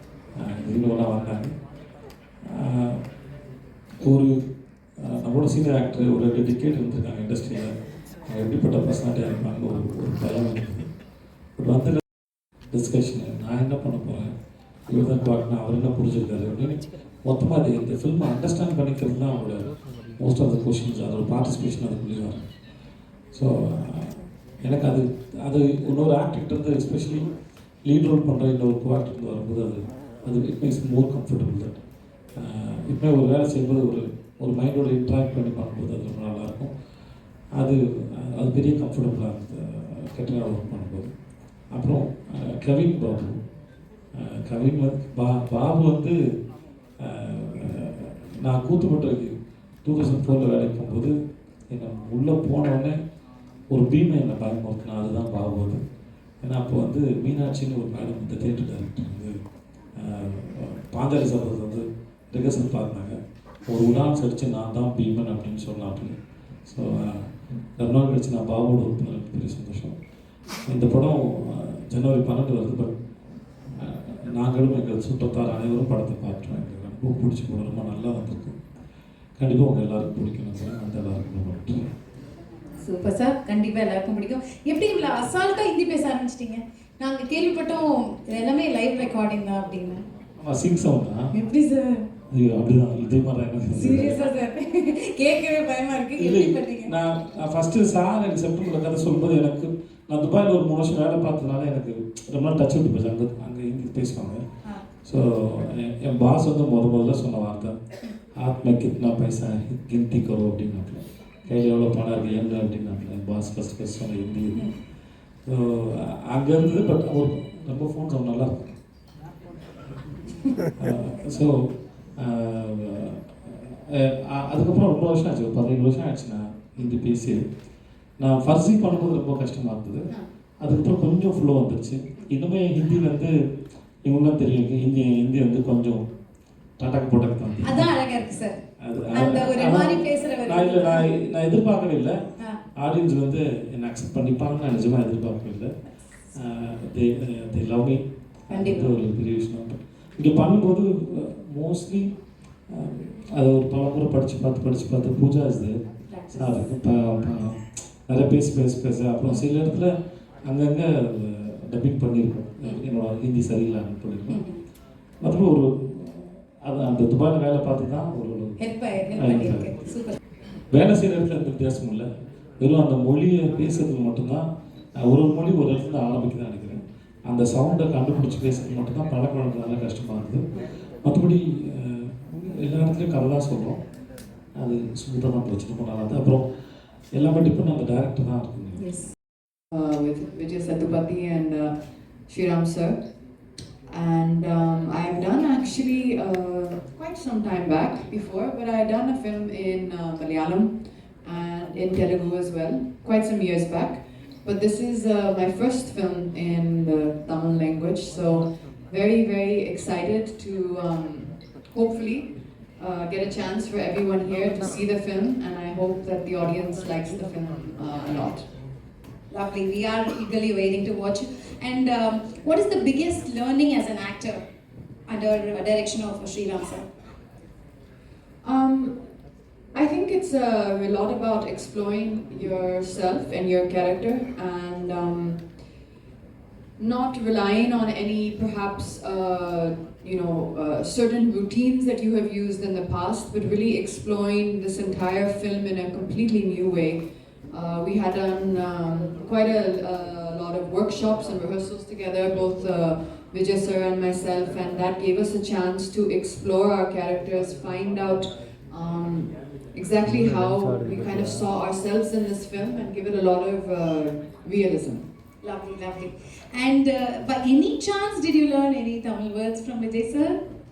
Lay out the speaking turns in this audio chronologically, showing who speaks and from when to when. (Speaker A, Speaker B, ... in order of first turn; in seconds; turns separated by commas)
Speaker A: 0.4-1.5, Speaker A: 2.4-3.0, Speaker A: 4.0-4.4, Speaker A: 5.0-7.7, Speaker A: 8.2-10.9, Speaker A: 11.6-12.0, Speaker A: 12.7-14.3, Speaker A: 14.9-22.4, Speaker A: 23.3-27.3, Speaker A: 27.8-31.8, Speaker A: 32.4-36.7, Speaker A: 37.5-41.1, Speaker A: 41.7-43.4, Speaker A: 44.2-46.2, Speaker A: 47.0-51.1, Speaker A: 51.7-53.0, Speaker A: 53.7-55.8, Speaker A: 56.4-59.3, Speaker A: 60.0-63.2, Speaker A: 63.7-66.1, Speaker A: 66.7-69.9, Speaker A: 70.7-72.9, Speaker A: 73.7-78.6, Speaker A: 79.4-81.9, Speaker B: 82.9-90.0, Speaker A: 90.4-91.3, Speaker B: 91.3-92.0, Speaker A: 92.3-94.2, Speaker B: 93.7-96.9, Speaker A: 96.2-104.4, Speaker A: 105.0-107.8, Speaker A: 108.3-114.7, Speaker A: 115.5-118.7, Speaker A: 120.8-127.4, Speaker A: 128.2-130.1, Speaker A: 130.6-133.3, Speaker A: 134.0-136.0, Speaker A: 136.8-137.9, Speaker B: 137.6-138.6, Speaker A: 138.8-142.2, Speaker B: 139.1-141.0, Speaker A: 142.8-145.7, Speaker A: 146.3-152.1, Speaker B: 148.5-148.9, Speaker A: 152.7-159.9, Speaker B: 156.1-156.5, Speaker A: 160.4-164.4, Speaker A: 165.2-168.6, Speaker B: 168.6-170.2, Speaker A: 169.2-169.7, Speaker A: 170.7-172.1, Speaker A: 172.6-174.4, Speaker A: 175.0-180.4, Speaker A: 181.0-183.8, Speaker A: 184.6-186.4, Speaker A: 187.1-188.9, Speaker C: 189.7-191.7, Speaker C: 192.3-193.0, Speaker C: 193.9-200.7, Speaker C: 201.2-218.4, Speaker B: 219.3-224.4, Speaker B: 225.1-226.8, Speaker C: 228.4-228.9, Speaker C: 229.7-235.4, Speaker C: 236.8-265.0, Speaker B: 265.4-270.4